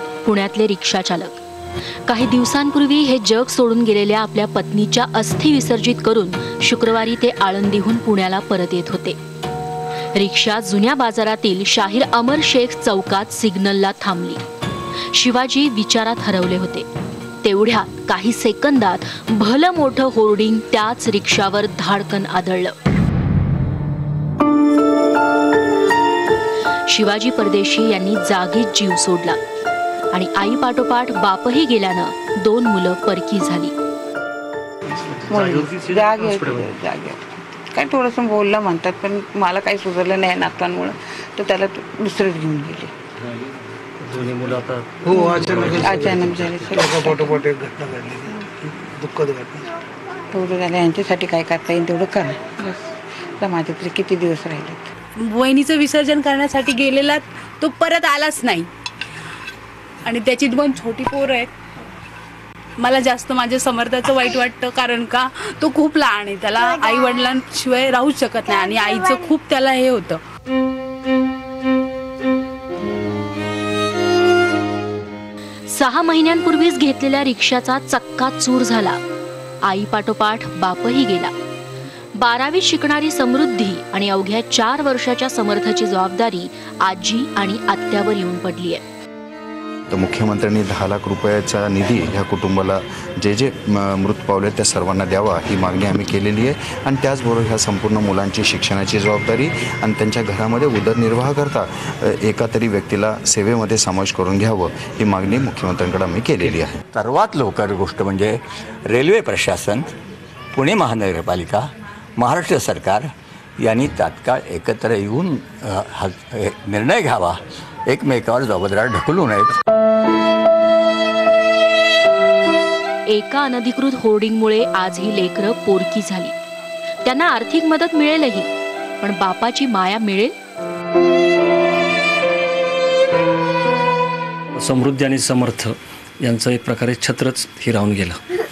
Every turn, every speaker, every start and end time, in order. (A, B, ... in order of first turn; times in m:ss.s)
0:00.2-0:01.4 A
0:02.1-0:09.2 A
0:10.1-0:14.4 A
0:15.1-0:16.8 A
0:17.4-0:22.7 A
0:26.9-0:29.4 A
0:30.1-0:33.7 A
0:35.3-0:42.9 B
0:44.0-0:46.7 C
0:45.0-0:46.2 D
0:45.1-0:47.4 B
0:46.8-0:49.7 D
0:50.3-0:54.9 B
0:55.2-0:58.7 E
1:00.0-1:01.5 E
1:02.8-1:10.2 E
1:15.7-1:19.0 A
1:19.6-1:21.3 A
1:22.2-1:28.8 A
1:29.9-1:46.8 F
1:46.9-1:49.9 G
1:50.5-1:53.1 G
1:53.6-1:59.6 G
2:03.1-2:06.3 A
2:07.0-2:08.5 A
2:09.0-2:10.3 A
2:14.6-2:18.2 C